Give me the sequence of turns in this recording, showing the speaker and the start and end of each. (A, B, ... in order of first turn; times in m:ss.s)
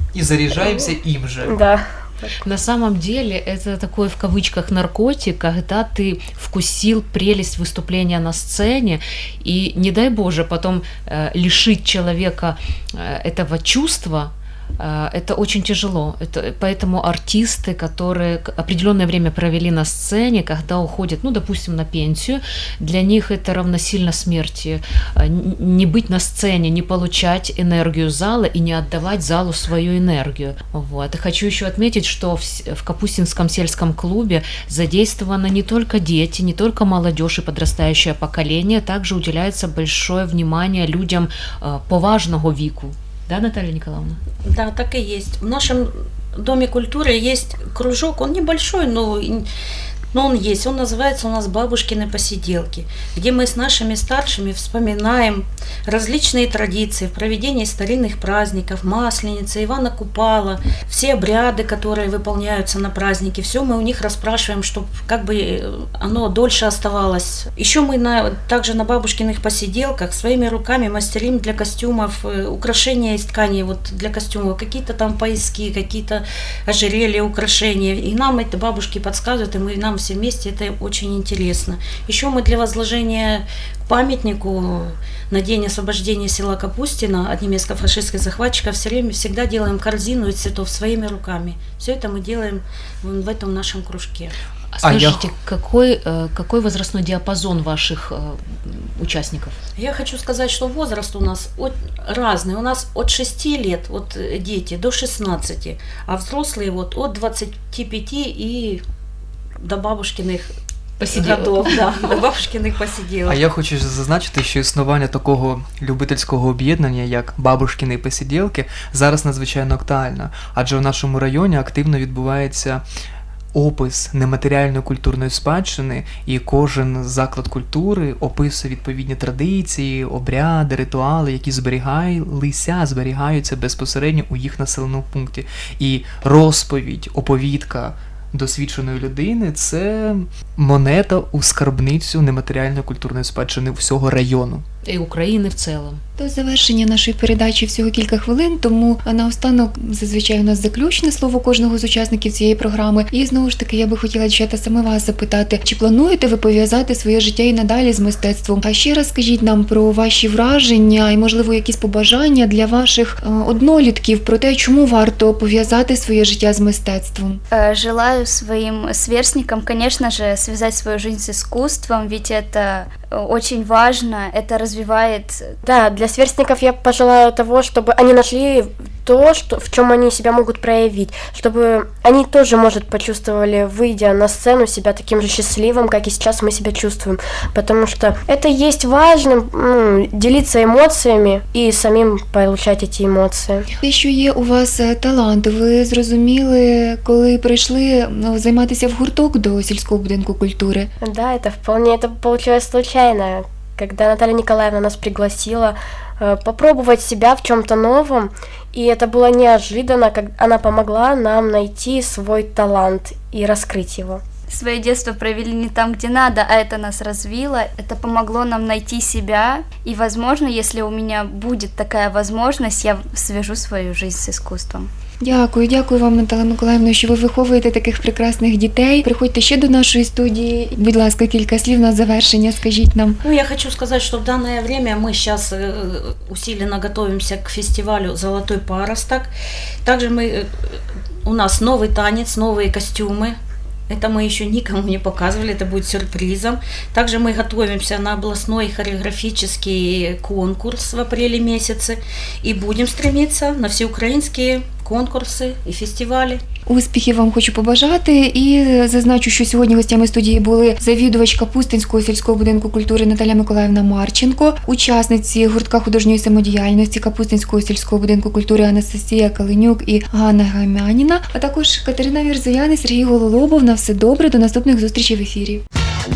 0:00.1-0:01.5 A
0:00.5-0:00.9 B
0:01.4-0:02.3 B
0:02.4-0:44.2 C
0:44.4-0:49.4 D
0:50.1-1:34.3 D
1:34.7-1:39.6 C
1:34.8-1:35.2 A
1:39.8-1:48.8 D
1:49.6-1:50.5 D
1:51.0-1:51.8 C
1:51.1-1:53.4 D
1:53.2-2:02.8 A
2:03.5-2:24.6 A
2:24.8-2:26.0 C
2:26.2-2:47.4 E
2:47.5-2:55.5 F
2:55.6-3:13.6 B
3:13.8-3:20.9 E
3:21.0-3:34.2 B
3:34.5-3:44.9 F
3:45.2-3:53.2 E
3:53.2-3:59.3 D
3:59.8-4:00.5 D
4:01.2-4:03.4 D
4:03.9-4:16.4 D
4:16.7-4:35.6 E